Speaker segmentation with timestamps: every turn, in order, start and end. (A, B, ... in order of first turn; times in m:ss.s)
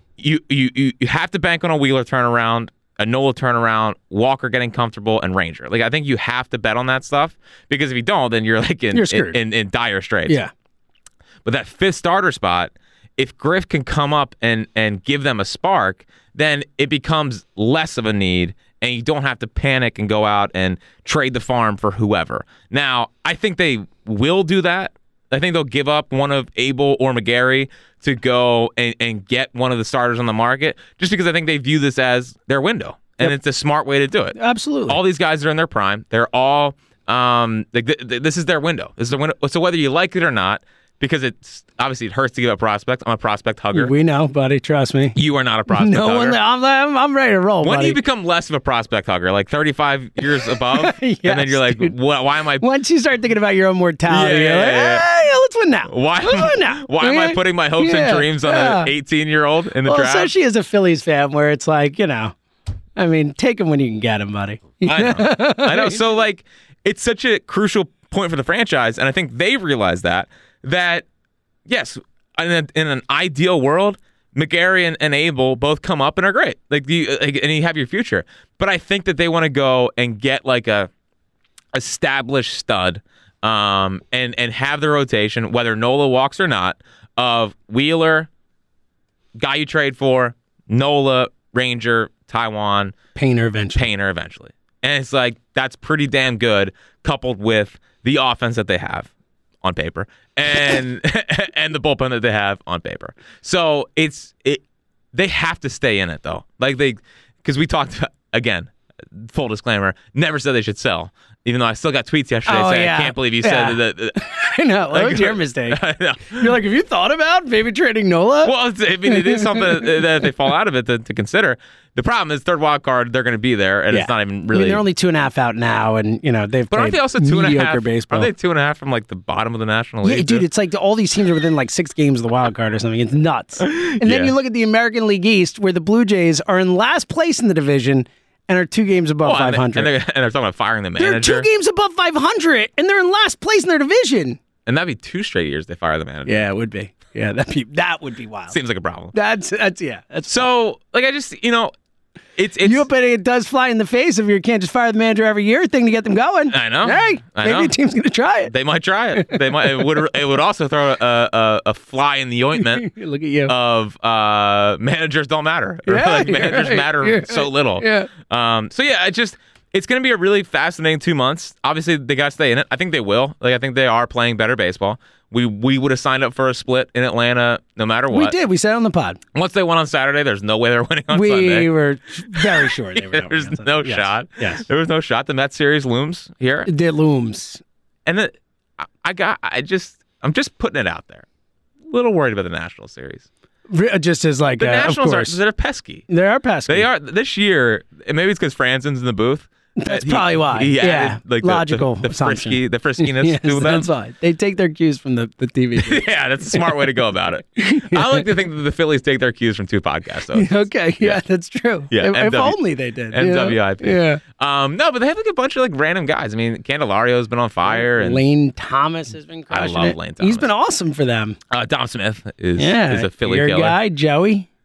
0:00.2-0:10.4 A
0:08.9-0:09.4 B
0:11.4-0:34.4 A
0:34.4-0:35.0 B
0:34.9-0:43.9 A
0:43.7-0:45.2 B
0:45.2-0:46.4 A
0:45.7-0:48.0 B
0:47.6-0:52.6 A
0:50.4-0:52.0 B
0:52.6-0:58.9 B
0:54.1-0:55.1 A
0:55.9-1:00.3 A
0:59.8-1:02.4 B
1:03.0-1:06.0 B
1:04.9-1:11.1 A
1:11.7-1:20.9 A
1:21.7-1:28.3 A
1:29.4-1:33.0 A
1:33.2-1:33.9 B
1:33.8-1:39.1 A
1:39.6-1:54.2 A
1:52.5-1:58.5 B
1:54.9-1:56.6 A
1:58.4-2:04.8 A
1:59.1-2:00.3 B
2:03.9-2:08.3 B
2:06.7-2:10.4 A
2:10.0-2:19.9 B
2:13.6-2:14.3 A
2:19.2-2:21.5 A
2:21.0-2:24.4 B
2:24.7-2:26.4 A
2:26.3-2:28.6 B
2:28.5-2:29.1 A
2:29.1-2:30.5 B
2:30.3-2:31.7 A
2:32.4-2:32.9 A
2:32.6-2:38.5 B
2:36.5-2:37.7 A
2:38.4-2:42.9 A
2:39.1-2:40.0 B
2:42.6-2:43.5 B
2:43.5-2:58.4 A
2:45.9-2:48.1 B
2:58.1-2:59.2 B
2:59.3-3:01.7 A
3:01.1-3:04.6 B
3:02.3-3:06.7 A
3:06.7-3:07.6 B
3:08.1-3:11.2 A
3:11.9-3:13.3 A
3:13.7-3:15.4 B
3:14.6-3:16.1 A
3:16.1-3:16.9 B
3:16.7-3:23.9 A
3:19.8-3:26.9 B
3:25.8-3:31.2 A
3:27.6-3:28.3 B
3:30.3-3:34.2 B
3:31.9-3:32.6 A
3:33.1-3:38.2 A
3:37.7-3:41.4 B
3:39.5-3:40.5 A
3:41.5-3:43.8 A
3:42.6-3:44.5 B